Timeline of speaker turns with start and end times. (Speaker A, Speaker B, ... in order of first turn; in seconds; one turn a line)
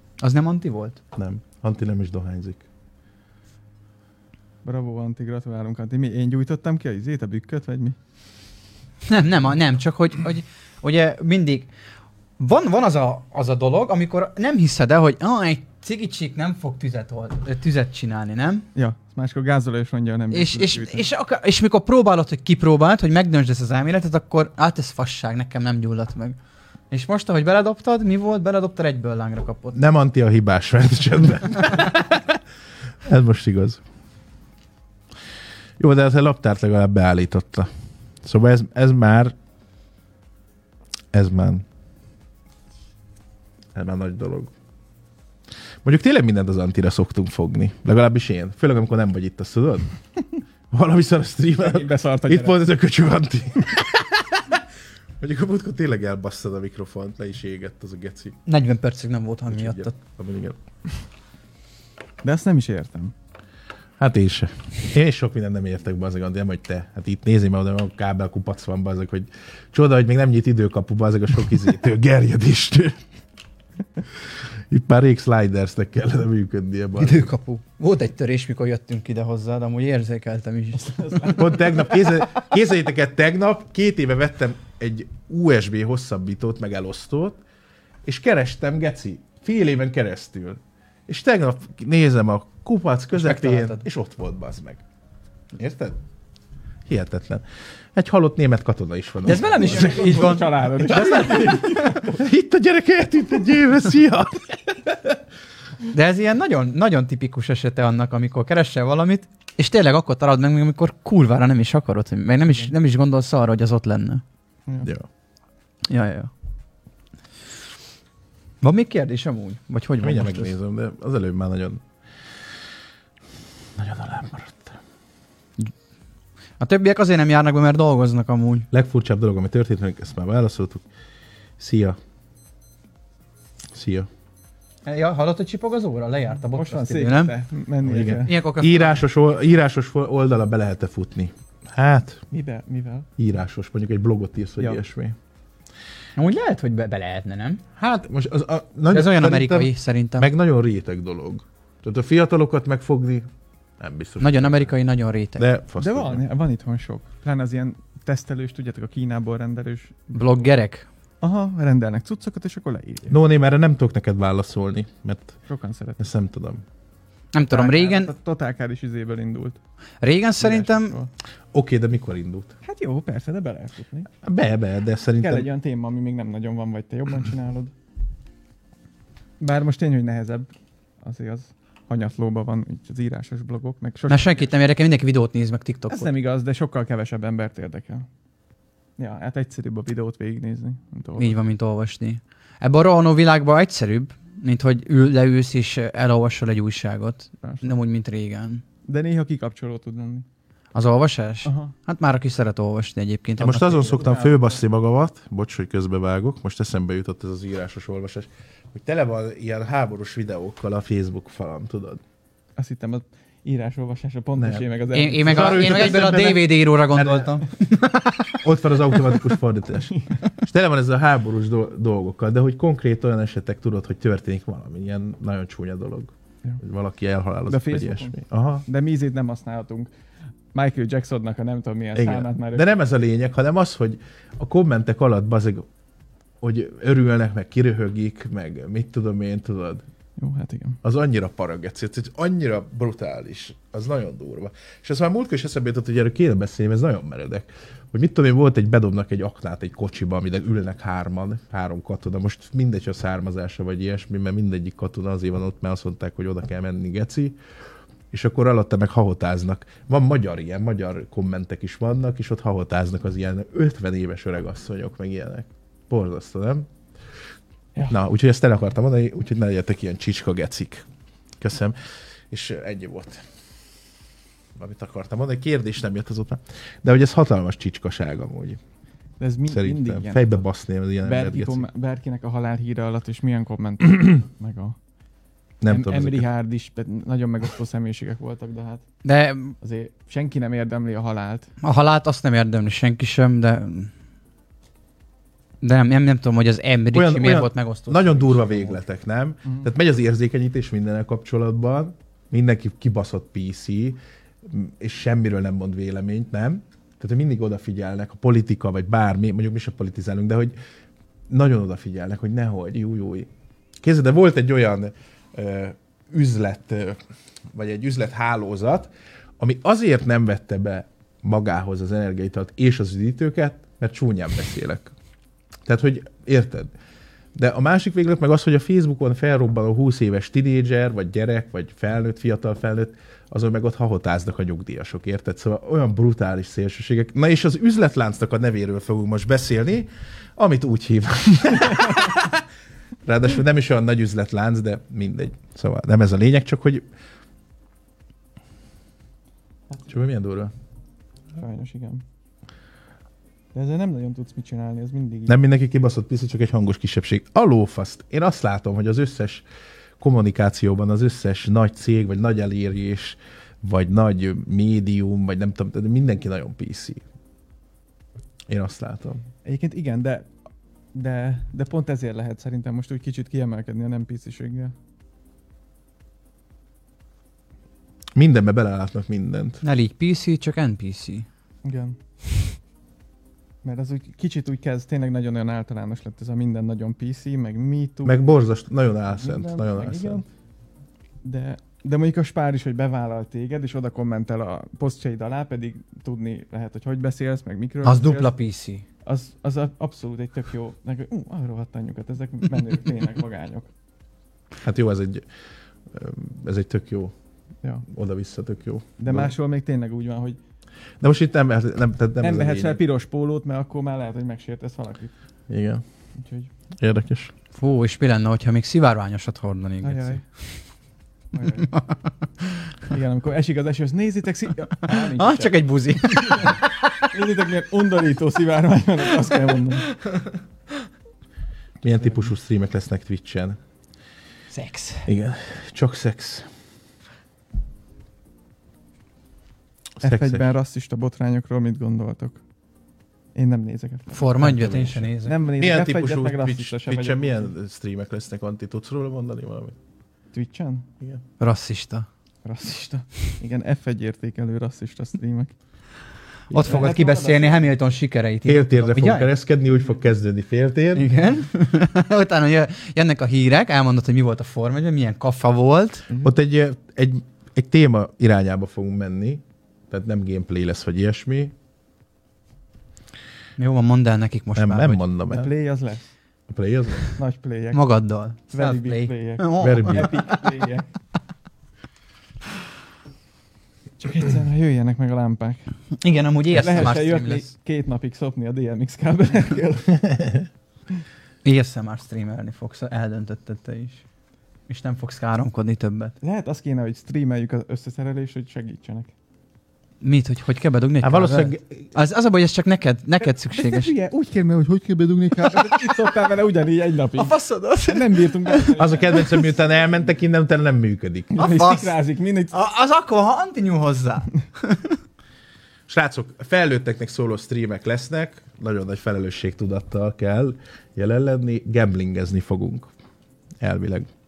Speaker A: 0.2-1.0
Speaker B: 1.1-2.6
Speaker C: 4.6-8.0
Speaker A: 9.1-11.7
Speaker A: 12.4-18.6
Speaker C: 18.8-21.1
Speaker A: 20.3-26.4
Speaker A: 26.9-29.8
Speaker B: 29.8-32.4
Speaker B: 33.1-33.8
Speaker B: 35.8-37.7
Speaker B: 38.2-39.3
Speaker B: 41.1-41.6
Speaker B: 43.8-44.5
Speaker B: 45.8-49.9
Speaker B: 50.7-54.6
Speaker C: 51.6-52.6
Speaker B: 55.2-58.4
Speaker A: 58.5-59.9
Speaker B: 59.5-60.6
Speaker C: 62.2-63.1
Speaker B: 64.0-73.0
Speaker B: 74.7-77.3
Speaker A: 77.0-81.4
Speaker C: 80.8-82.1
Speaker B: 81.4-87.4
Speaker B: 88.0-94.8
Speaker A: 93.1-93.8
Speaker B: 95.6-96.0
Speaker B: 96.9-97.4
Speaker B: 98.0-105.1
Speaker A: 99.2-101.5
Speaker C: 99.4-102.2
Speaker A: 105.9-114.2
Speaker A: 115.9-116.3
Speaker A: 118.6-120.5
Speaker B: 120.0-121.8
Speaker B: 123.8-124.8
Speaker A: 126.6-128.7
Speaker B: 128.7-130.8
Speaker B: 131.6-132.0
Speaker B: 133.7-134.1
Speaker A: 134.8-137.3
Speaker C: 136.5-138.3
Speaker B: 137.9-142.2
Speaker A: 138.1-139.0
Speaker C: 142.3-143.1
Speaker B: 143.2-145.2
Speaker A: 146.2-147.6
Speaker B: 147.8-153.3
Speaker A: 148.9-150.3
Speaker B: 153.8-154.7
Speaker A: 154.2-155.4
Speaker B: 155.4-156.2
Speaker C: 155.8-160.3
Speaker A: 160.1-160.9
Speaker C: 161.2-163.2
Speaker B: 163.1-165.4
Speaker C: 165.5-166.1
Speaker B: 166.0-166.6
Speaker A: 167.3-168.1
Speaker C: 167.4-169.6
Speaker A: 170.0-171.0
Speaker C: 170.4-171.1
Speaker B: 171.5-172.6
Speaker C: 172.6-174.1
Speaker B: 174.2-175.5
Speaker C: 175.2-177.7
Speaker C: 179.4-180.5
Speaker C: 181.0-184.5
Speaker A: 184.1-186.1
Speaker C: 185.9-188.1
Speaker C: 189.0-191.4
Speaker A: 191.2-198.6
Speaker C: 197.4-197.7
Speaker C: 198.9-200.3
Speaker A: 200.7-204.1
Speaker C: 201.4-201.7
Speaker B: 203.4-212.0
Speaker C: 203.8-204.6
Speaker C: 212.6-216.3
Speaker B: 214.4-214.7
Speaker A: 214.9-219.2
Speaker B: 215.2-217.4
Speaker B: 218.4-228.7
Speaker C: 227.5-229.9
Speaker C: 230.5-232.7
Speaker B: 231.9-235.7
Speaker B: 236.4-239.8
Speaker C: 240.2-240.8
Speaker B: 240.8-257.4
Speaker B: 258.1-266.7
Speaker B: 267.9-270.9
Speaker B: 271.4-271.8
Speaker B: 272.3-273.2
Speaker B: 274.6-278.6
Speaker C: 279.2-280.3
Speaker B: 279.5-281.7
Speaker C: 281.0-284.8
Speaker B: 285.6-286.3
Speaker C: 285.7-288.9
Speaker A: 289.1-289.6
Speaker C: 289.6-291.5
Speaker A: 291.6-293.9
Speaker A: 295.6-298.8
Speaker B: 296.9-310.6
Speaker B: 311.3-313.3
Speaker B: 313.8-317.0
Speaker B: 317.5-324.9
Speaker B: 325.7-326.7
Speaker B: 327.4-342.4
Speaker B: 343.1-346.9
Speaker B: 349.9-350.5
Speaker C: 351.4-352.1
Speaker C: 353.5-355.4
Speaker B: 355.3-359.4
Speaker B: 360.0-367.0
Speaker B: 368.5-369.2
Speaker C: 369.4-370.3
Speaker C: 370.9-374.7
Speaker B: 378.2-379.6
Speaker A: 379.6-381.3
Speaker C: 381.6-382.0
Speaker C: 383.6-388.2
Speaker B: 388.1-390.2
Speaker C: 389.1-390.2
Speaker C: 391.2-398.3
Speaker A: 397.8-398.9
Speaker C: 399.1-403.7
Speaker B: 404.6-405.3
Speaker B: 405.9-407.1
Speaker B: 407.9-409.3
Speaker C: 409.0-410.4
Speaker B: 411.0-412.8
Speaker C: 412.2-415.1
Speaker B: 415.5-415.8
Speaker C: 416.2-416.5
Speaker B: 416.8-417.3
Speaker A: 417.6-420.4
Speaker C: 419.8-420.2
Speaker C: 421.3-421.7
Speaker A: 421.6-422.0
Speaker C: 422.9-426.6
Speaker A: 424.9-427.1
Speaker C: 427.1-429.9
Speaker A: 429.9-430.2
Speaker B: 431.8-433.6
Speaker C: 431.9-432.3
Speaker A: 434.5-435.1
Speaker B: 435.1-436.5
Speaker B: 440.0-440.5
Speaker C: 440.0-442.4
Speaker C: 443.4-447.5
Speaker A: 444.1-445.4
Speaker B: 444.4-449.8
Speaker C: 450.3-450.9
Speaker A: 451.4-452.1
Speaker C: 452.4-455.6
Speaker C: 456.5-457.7
Speaker A: 456.5-459.3
Speaker B: 458.5-461.1
Speaker A: 460.9-466.1
Speaker B: 466.2-471.5
Speaker A: 473.6-475.0
Speaker B: 474.6-475.5
Speaker C: 475.3-476.1
Speaker B: 476.5-477.1
Speaker C: 477.2-477.8
Speaker A: 477.7-480.4
Speaker C: 478.5-480.9
Speaker B: 479.6-480.1
Speaker C: 484.0-485.7
Speaker A: 486.0-487.5
Speaker C: 486.5-490.3
Speaker A: 491.4-494.0
Speaker A: 494.7-496.1
Speaker C: 496.2-499.1
Speaker A: 500.0-503.9
Speaker B: 501.0-501.9
Speaker C: 503.2-507.4
Speaker A: 507.1-509.5
Speaker C: 507.9-509.5
Speaker B: 508.8-511.4
Speaker C: 511.3-512.5
Speaker A: 511.4-512.0
Speaker A: 512.5-514.9
Speaker B: 515.9-522.9
Speaker B: 523.6-524.1